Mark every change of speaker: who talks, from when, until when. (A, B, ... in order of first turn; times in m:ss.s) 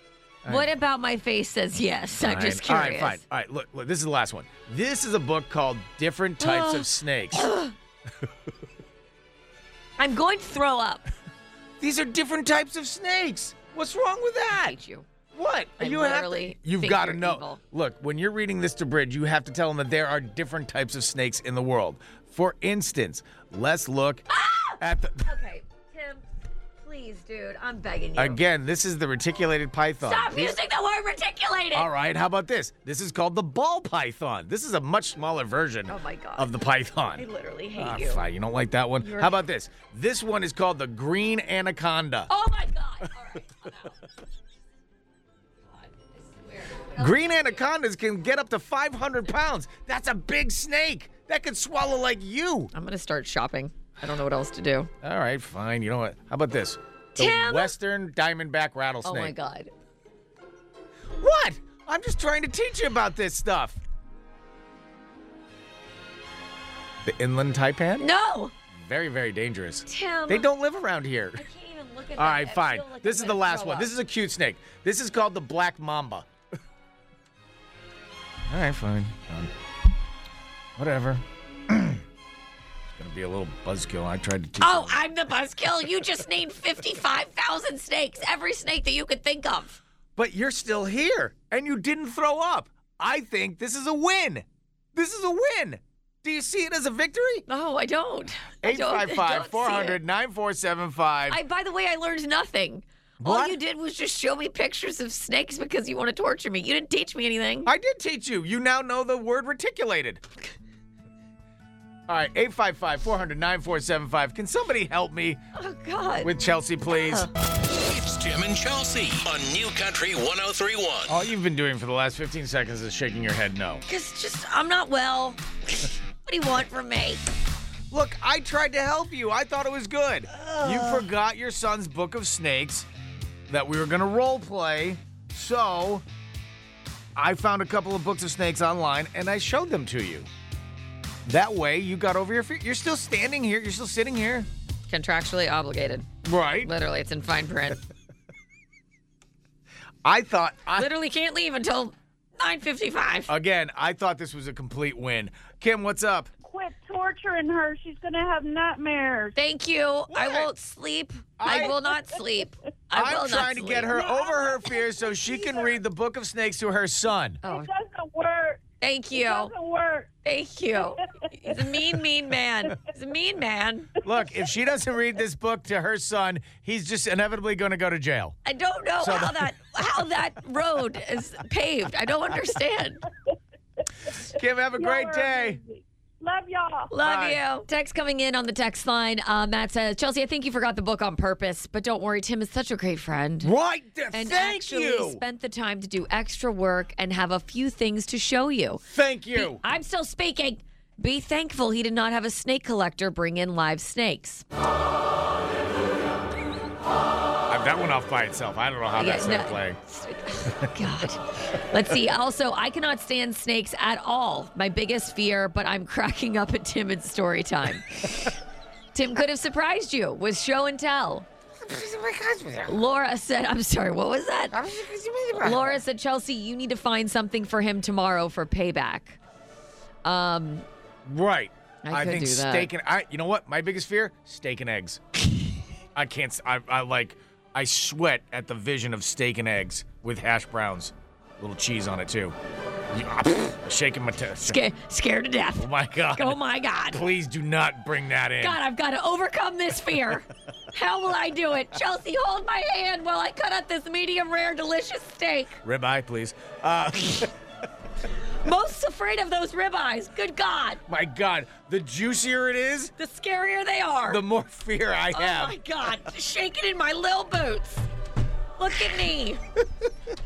0:00.4-0:00.7 A
0:00.5-0:03.2 B
0:02.2-0:07.5 A
0:06.4-0:07.7 B
0:10.0-0:11.1 B
0:11.8-0:14.8 A
0:14.5-0:15.0 B
0:15.3-0:24.2 A
0:15.8-0:17.6 B
0:24.3-0:26.2 B
0:24.8-0:25.3 A
0:26.8-0:28.4 B
0:28.2-0:30.6 A
0:30.0-0:31.9 B
0:31.7-0:37.2 A
0:35.9-0:36.5 B
0:37.2-0:38.2 B
0:37.8-0:42.3 A
0:39.0-0:39.4 B
0:42.3-0:44.0 B
0:45.7-0:47.6 B
0:47.0-0:52.7 A
0:52.7-0:54.9 B
0:55.0-0:59.3 A
0:57.2-0:57.7 B
0:59.0-0:59.7 B
1:01.2-1:03.8 A
1:07.0-1:08.1 A
1:08.0-1:08.5 B
1:08.7-1:11.4 A
1:09.9-1:10.5 B
1:11.4-1:13.9 B
1:12.2-1:16.2 A
1:18.5-1:19.5 A
1:20.8-1:22.0 A
1:22.9-1:25.0 A
1:24.6-1:29.8 B
1:30.2-1:37.4 A
1:37.5-1:40.0 B
1:38.6-1:41.4 A
1:41.3-1:47.7 B
1:43.2-1:43.6 A
1:47.6-1:50.2 A
1:52.1-1:55.4 A
1:55.5-1:56.3 B
1:56.2-1:57.3 A
1:56.9-1:57.3 B
1:57.7-2:01.1 C
2:01.1-2:03.8 A
2:03.9-2:07.2 B
2:07.9-2:12.9 A
2:10.3-2:11.0 B
2:13.5-2:16.0 A
2:17.2-2:20.3 A
2:21.2-2:24.5 A
2:24.9-2:26.1 B
2:26.2-2:26.7 A
2:26.6-2:27.8 B
2:30.0-2:30.9 A
2:30.8-2:33.3 B
2:33.3-2:36.3 A
2:36.4-2:39.4 D
2:39.4-2:44.0 B
2:40.1-2:40.5 A
2:41.4-2:41.8 A
2:42.9-2:47.4 A
2:43.9-2:45.8 D
2:47.4-2:47.7 B
2:47.4-2:50.1 D
2:48.8-2:49.5 B
2:50.2-2:54.0 B
2:50.9-2:51.8 D
2:54.0-2:58.4 A
2:58.4-3:03.0 B
2:59.0-2:59.5 A
3:04.2-3:05.6 A
3:04.7-3:06.9 D
3:06.9-3:13.5 B
3:07.0-3:07.4 A
3:13.4-3:15.2 A
3:14.1-3:18.8 B
3:18.9-3:19.6 A
3:19.3-3:24.4 B
3:27.5-3:29.8 A
3:29.0-3:38.4 B
3:38.9-3:41.3 B
3:41.6-3:42.8 A
3:42.7-3:44.6 B
3:44.5-3:45.8 A
3:45.4-3:49.2 B
3:50.0-3:50.6 B
3:51.0-3:55.0 A
3:51.8-3:52.7 B
3:55.9-4:02.3 A
4:02.9-4:04.6 A
4:04.4-4:07.0 B
4:05.6-4:08.6 A
4:08.4-4:15.6 B
4:15.6-4:17.3 A
4:18.4-4:20.8 B
4:20.9-4:22.9 A
4:23.0-4:24.2 B
4:24.1-4:25.6 A
4:25.1-4:27.8 B
4:28.6-4:29.4 B